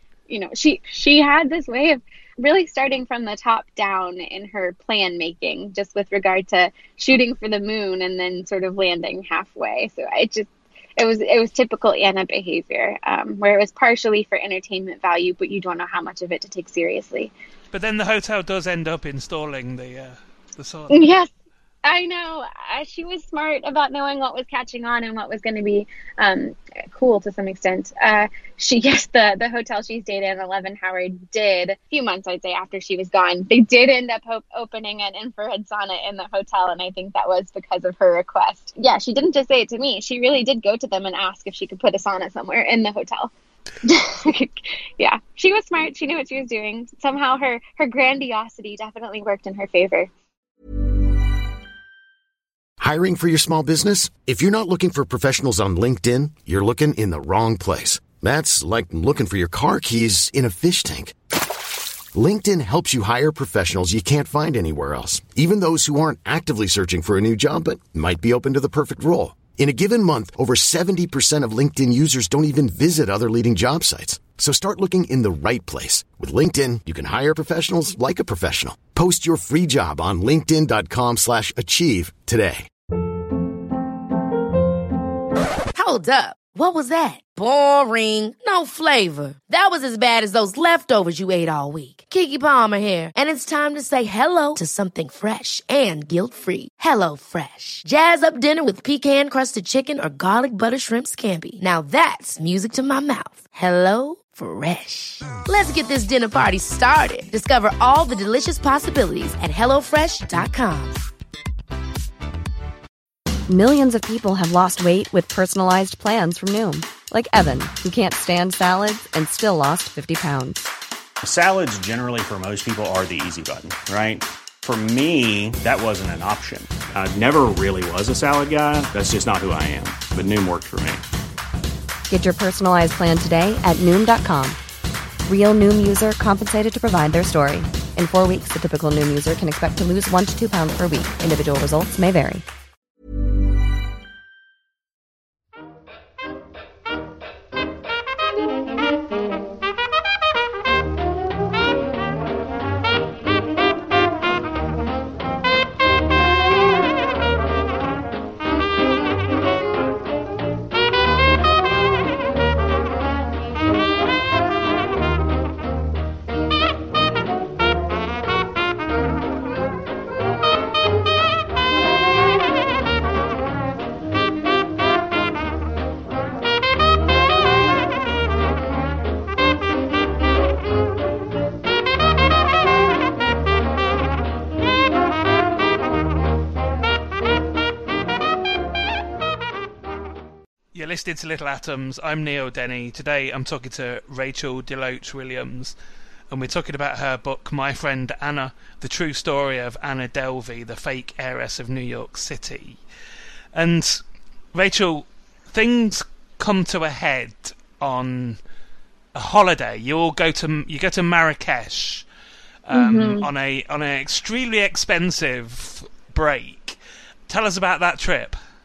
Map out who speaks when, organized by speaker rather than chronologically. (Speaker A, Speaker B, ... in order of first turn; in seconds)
Speaker A: 0.3-17.3, 20.9-21.3, 21.8-43.3, 43.8-50.1, 212.7-213.3
Speaker B: 17.7-21.0, 190.7-195.7, 196.3-202.8, 203.5-204.0, 204.5-208.4, 209.1-212.0, 212.7-218.3
Speaker C: 52.8-61.1, 62.1-82.7
Speaker D: 85.7-111.0
Speaker E: 113.5-120.7, 132.1-134.6, 135.3-142.4
Speaker F: 121.2-131.0